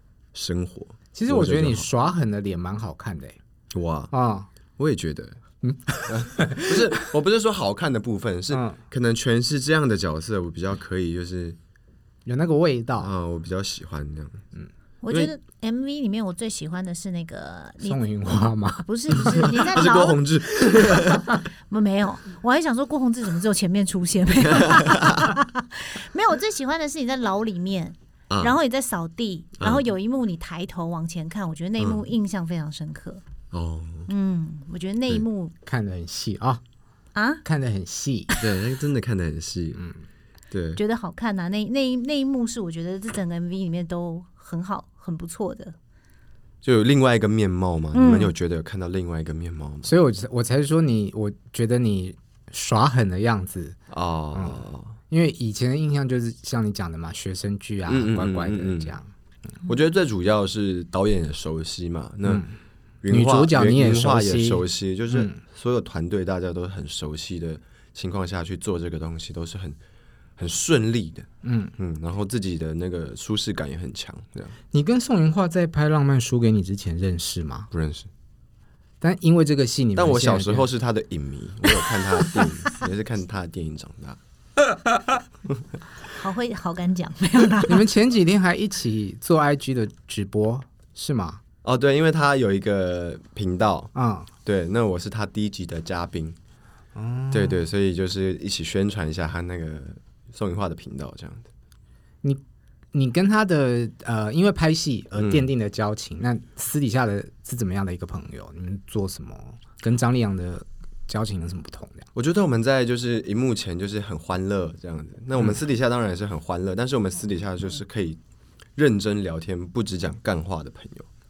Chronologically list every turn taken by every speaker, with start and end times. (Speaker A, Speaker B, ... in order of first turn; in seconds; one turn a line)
Speaker A: 0.3-1.9
Speaker B: 1.1-3.4
Speaker A: 3.7-4.1
Speaker B: 4.1-4.5
Speaker A: 4.8-5.4
Speaker B: 5.6-7.1
Speaker A: 6.1-11.6
Speaker B: 8.5-8.8
Speaker B: 12.3-13.1
Speaker A: 13.0-14.4
Speaker C: 15.0-18.0
Speaker B: 17.8-19.5
Speaker C: 18.9-20.2
Speaker A: 19.4-21.3
Speaker C: 21.7-33.2
Speaker A: 24.5-25.3
Speaker A: 28.3-28.6
Speaker A: 29.6-29.9
Speaker A: 31.8-32.0
Speaker A: 33.5-34.1
Speaker C: 34.1-35.5
Speaker B: 35.7-36.6
Speaker C: 37.1-37.4
Speaker B: 37.4-38.3
Speaker A: 38.4-39.8
Speaker A: 40.5-40.8
Speaker C: 40.8-45.8
Speaker A: 46.6-49.9
Speaker C: 47.9-48.3
Speaker B: 49.9-53.8
Speaker A: 53.9-55.0
Speaker B: 54.3-59.1
Speaker A: 57.9-59.0
Speaker A: 59.6-62.5
Speaker B: 62.2-62.5
Speaker A: 63.0-69.8
Speaker B: 63.1-65.4
Speaker A: 70.4-74.6
Speaker B: 71.4-71.7
Speaker B: 74.7-77.7
Speaker A: 77.7-78.1
Speaker B: 79.0-80.7
Speaker A: 80.0-84.2
Speaker C: 86.1-87.8
Speaker B: 87.7-91.4
Speaker A: 91.6-93.9
Speaker B: 94.0-94.3
Speaker A: 94.5-96.4
Speaker B: 97.0-97.6
Speaker A: 97.3-101.5
Speaker B: 102.9-112.1
Speaker A: 105.2-105.5
Speaker A: 112.2-118.2
Speaker A: 118.8-121.1